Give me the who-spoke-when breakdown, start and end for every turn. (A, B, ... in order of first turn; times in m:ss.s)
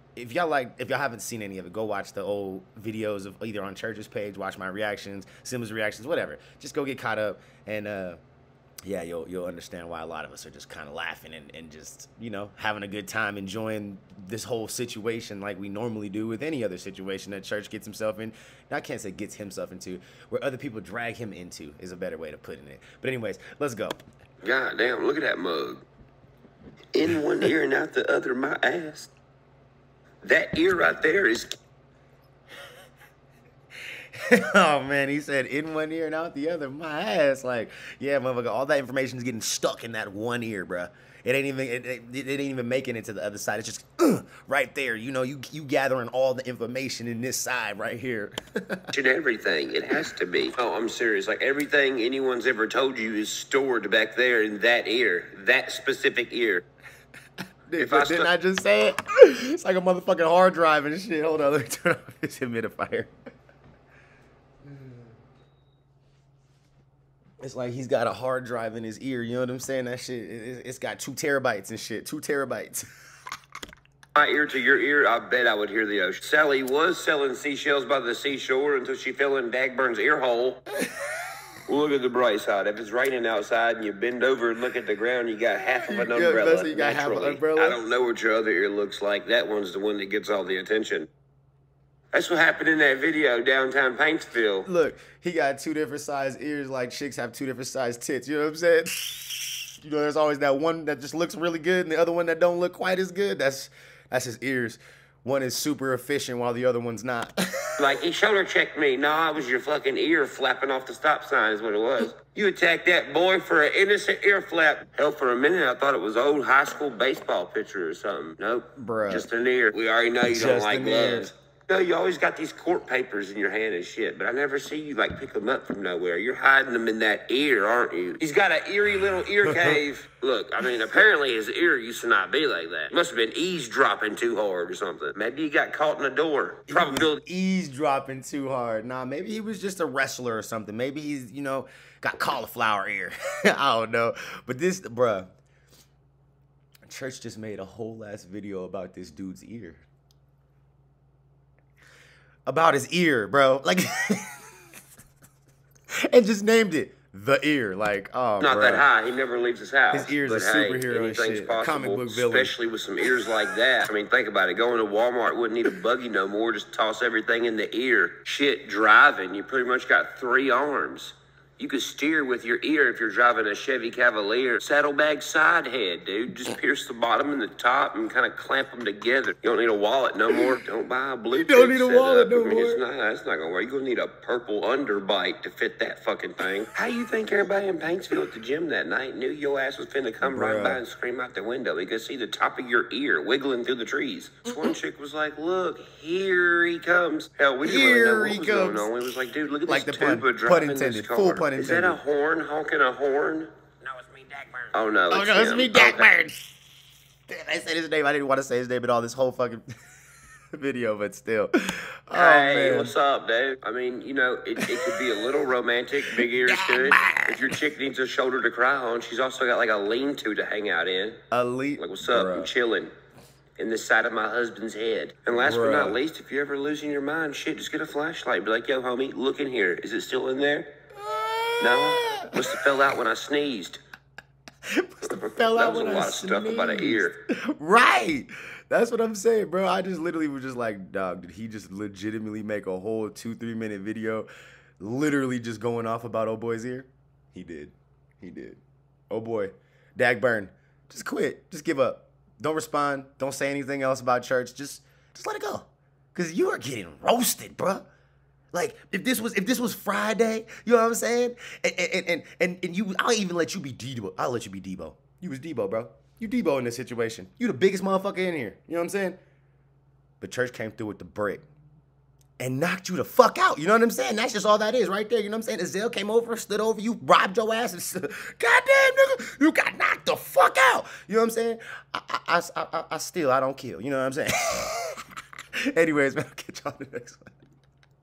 0:00.2-0:08.2 A
0:08.8-0:24.0 A
0:24.4-0:25.8 B
0:26.9-0:29.1 B
0:30.2-0:31.5 B
0:34.1-0:48.9 A
0:48.9-0:56.6 B
0:57.7-1:03.1 A
0:57.8-0:58.3 B
1:04.7-1:05.0 A
1:07.4-1:12.8 A
1:14.2-1:20.6 B
1:21.7-1:31.1 B
1:25.6-1:27.8 A
1:32.1-1:34.7 B
1:34.7-1:47.7 A
1:47.8-2:17.2 B
1:58.8-1:59.3 A
2:00.3-2:01.3 A
2:09.4-2:09.8 A
2:16.7-2:25.3 A
2:26.9-2:29.8 A
2:32.5-2:34.4 A
2:36.1-2:38.9 A
2:38.4-3:26.1 B
2:39.9-2:42.6 A
3:00.3-3:00.5 A
3:01.3-3:02.8 A
3:10.2-3:10.8 A
3:14.5-3:14.8 A
3:17.6-3:18.9 A
3:19.7-3:22.0 A
3:25.1-3:26.4 A
3:27.3-3:29.6 A
3:30.6-3:32.9 A
3:32.1-3:41.2 B
3:34.6-3:34.9 A
3:36.2-3:37.6 A
3:41.3-3:42.5 A
3:41.8-3:42.9 B
3:43.6-3:50.7 B
3:45.3-3:46.0 A
3:51.0-3:52.6 A
3:51.6-3:53.8 B
3:54.8-4:04.3 A
3:55.0-3:57.1 B
4:04.8-4:17.9 A
4:18.5-4:29.2 A
4:30.2-4:31.4 A
4:32.4-4:45.0 A
4:45.7-4:47.3 A